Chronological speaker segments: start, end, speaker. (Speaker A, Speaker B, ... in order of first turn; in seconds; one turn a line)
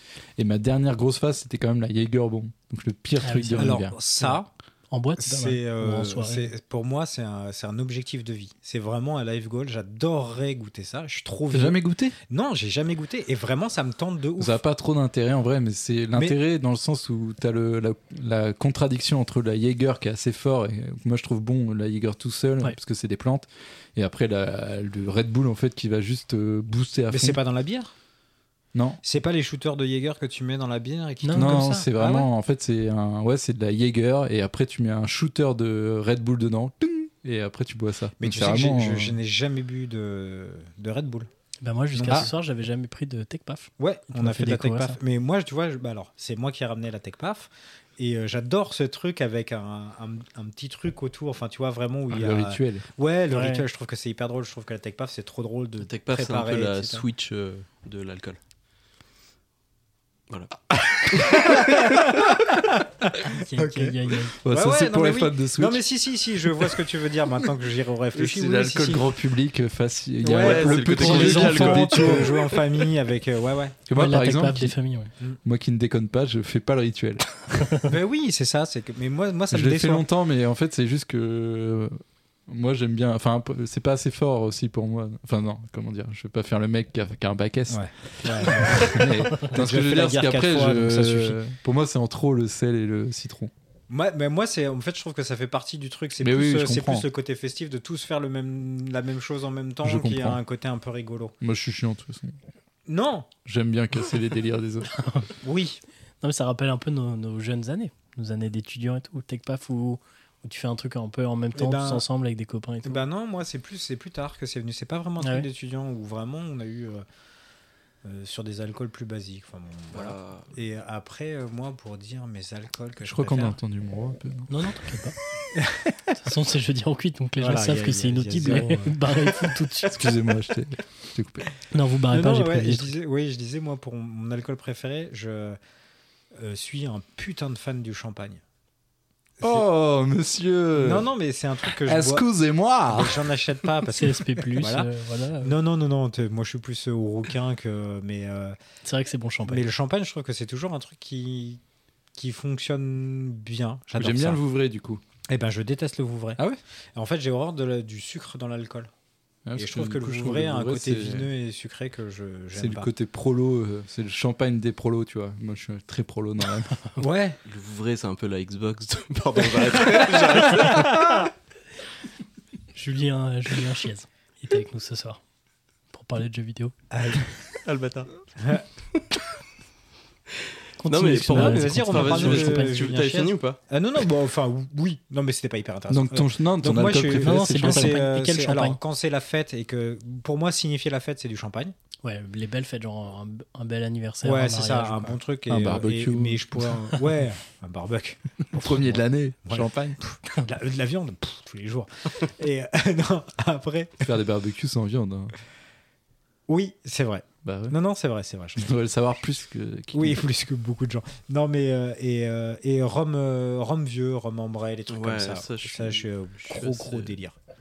Speaker A: 0.4-4.0
Speaker B: 3.2-4.4
Speaker C: 3.6-4.5
Speaker B: 4.9-6.5
Speaker C: 5.2-14.6
Speaker A: 11.5-12.2
Speaker A: 14.4-27.4
Speaker C: 27.1-27.9
Speaker A: 28.7-29.0
Speaker C: 29.0-32.3
Speaker B: 31.2-31.6
Speaker A: 31.3-39.2
Speaker C: 38.2-41.3
Speaker B: 41.6-45.0
Speaker C: 41.9-42.3
Speaker C: 43.8-57.0
Speaker A: 52.1-52.9
Speaker B: 53.3-53.6
Speaker D: 55.8-58.4
Speaker D: 60.3-60.5
Speaker C: 61.1-62.6
Speaker B: 63.2-64.4
Speaker C: 63.6-64.0
Speaker A: 64.4-65.8
Speaker C: 64.5-69.1
Speaker A: 68.1-72.4
Speaker C: 70.2-73.8
Speaker D: 70.4-72.6
Speaker A: 73.9-74.8
Speaker B: 74.0-75.1
Speaker A: 75.4-77.7
Speaker C: 77.9-80.0
Speaker A: 79.5-93.5
Speaker C: 87.7-91.4
Speaker C: 93.9-101.4
Speaker A: 96.2-97.1
Speaker A: 99.8-100.4
Speaker A: 101.4-102.4
Speaker C: 102.9-103.3
Speaker A: 103.5-104.9
Speaker B: 105.0-105.3
Speaker C: 105.4-105.8
Speaker B: 106.2-113.0
Speaker C: 111.5-112.0
Speaker C: 112.8-117.0
Speaker B: 115.2-115.5
Speaker C: 118.0-123.6
Speaker D: 119.9-120.5
Speaker A: 123.0-124.7
Speaker B: 124.5-125.2
Speaker C: 125.6-126.0
Speaker B: 126.2-130.0
Speaker C: 127.4-129.5
Speaker A: 128.4-128.7
Speaker A: 129.9-131.5
Speaker B: 131.7-132.9
Speaker C: 132.1-135.6
Speaker C: 136.4-138.4
Speaker A: 139.4-141.1
Speaker C: 140.8-142.2
Speaker A: 141.6-143.2
Speaker C: 142.9-144.9
Speaker B: 143.9-145.6
Speaker C: 145.4-148.6
Speaker B: 148.8-149.6
Speaker C: 149.5-151.6
Speaker C: 152.2-154.4
Speaker A: 154.0-155.0
Speaker C: 155.3-156.4
Speaker C: 156.9-158.9
Speaker A: 159.5-161.3
Speaker C: 159.6-162.9
Speaker A: 162.5-166.8
Speaker C: 167.0-167.4
Speaker D: 167.5-171.3
Speaker B: 172.8-175.2
Speaker B: 175.9-176.7
Speaker C: 176.9-177.3
Speaker D: 177.6-178.1
Speaker B: 180.8-182.9
Speaker D: 180.9-183.6
Speaker C: 181.2-191.8
Speaker A: 185.9-188.0
Speaker B: 187.1-188.8
Speaker B: 192.0-195.2
Speaker C: 194.2-204.1
Speaker A: 195.5-196.4
Speaker A: 198.5-200.0
Speaker A: 204.0-205.3
Speaker C: 206.5-208.7
Speaker A: 207.4-207.8
Speaker A: 208.6-210.2
Speaker C: 209.9-217.3
Speaker D: 214.9-217.2